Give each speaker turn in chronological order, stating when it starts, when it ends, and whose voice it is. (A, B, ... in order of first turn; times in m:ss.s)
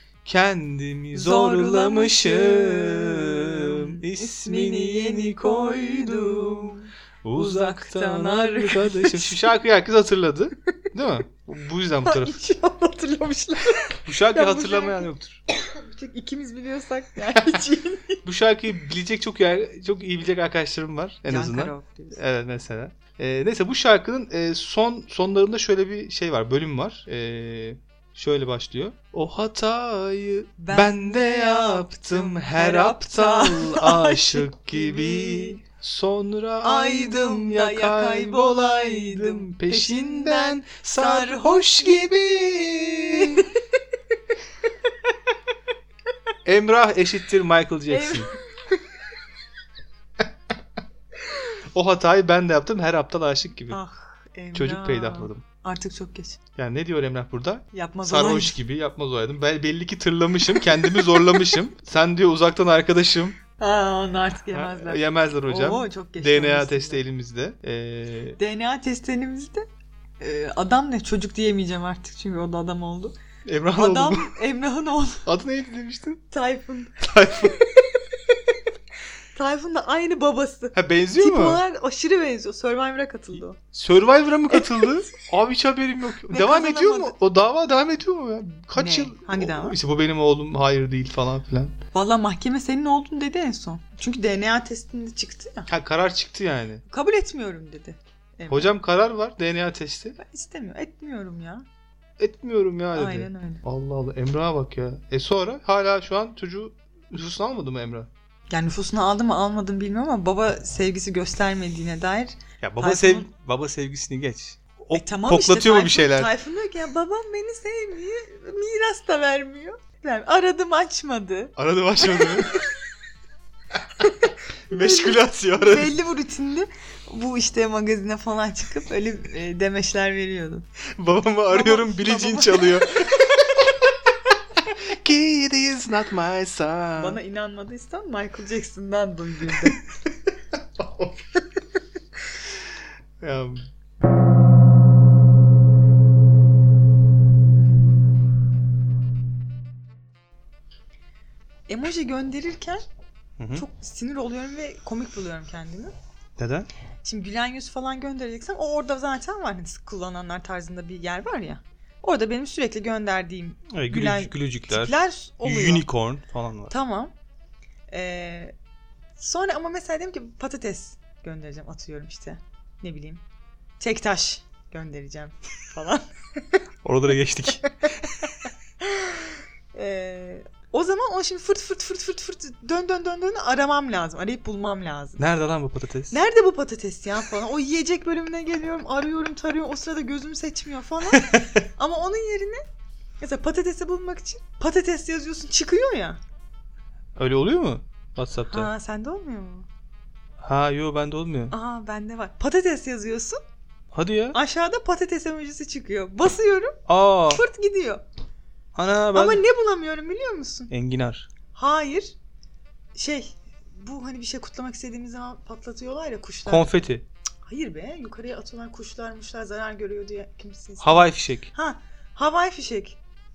0:00.2-0:12.4 A
0:01.1-0:09.5 B
0:12.0-0:18.2 B
0:14.0-0:15.4 A
0:18.2-0:43.5 A
0:21.2-0:22.2 B
0:30.6-0:35.6 B
0:36.6-0:43.5 B
0:46.4-0:48.3 A
0:47.9-0:48.4 B
0:51.7-0:53.8 A
0:53.7-0:56.4 B
0:54.5-0:55.4 A
0:56.6-1:03.4 A
0:57.7-0:58.6 B
1:00.6-1:01.4 B
1:03.6-1:07.0 B
1:04.5-1:08.4 A
1:08.4-1:09.6 B
1:10.2-1:13.1 B
1:13.4-1:14.3 A
1:13.7-1:15.2 B
1:15.2-1:16.2 A
1:16.3-1:17.5 B
1:17.0-1:17.6 A
1:19.3-1:23.6 B
1:20.7-1:21.6 A
1:23.7-1:31.7 A
1:24.5-1:24.8 B
1:26.3-1:27.1 B
1:28.8-1:29.8 B
1:31.9-1:35.7 B
1:35.7-1:36.8 A
1:36.9-1:38.7 B
1:38.5-1:40.2 A
1:40.2-1:41.6 B
1:42.2-1:48.1 A
1:42.9-1:43.6 B
1:48.5-1:53.3 B
1:52.6-1:56.3 A
1:54.9-2:02.7 B
2:01.6-2:02.6 A
2:04.7-2:05.9 A
2:04.7-2:10.6 B
2:11.0-2:13.7 A
2:11.5-2:13.0 B
2:14.6-2:17.2 A
2:17.0-2:19.8 B
2:20.8-2:21.1 A
2:23.2-2:23.6 A
2:31.7-2:32.8 B
2:33.4-2:33.6 A
2:33.5-2:35.9 B
2:36.4-2:36.7 A
2:37.0-2:45.8 B
2:43.7-2:46.7 A
2:46.7-2:47.1 B
2:47.9-2:48.5 B
2:49.2-2:53.2 B
2:53.8-2:56.6 B
2:56.8-2:58.5 A
2:58.2-3:05.2 B
3:05.2-3:06.2 A
3:06.1-3:12.6 B
3:11.1-3:11.4 A
3:13.2-3:16.2 B
3:17.2-3:18.7 A
3:18.5-3:19.7 B
3:20.4-3:21.5 A
3:21.5-3:23.4 B
3:23.9-3:24.4 A
3:24.3-3:28.0 B
3:26.9-3:27.4 A
3:28.7-3:29.4 A
3:29.1-3:30.7 B
3:30.7-3:31.3 A
3:31.5-3:32.1 B
3:32.9-3:36.7 B
3:36.4-3:37.0 A
3:37.4-3:43.0 B
3:40.8-3:41.5 A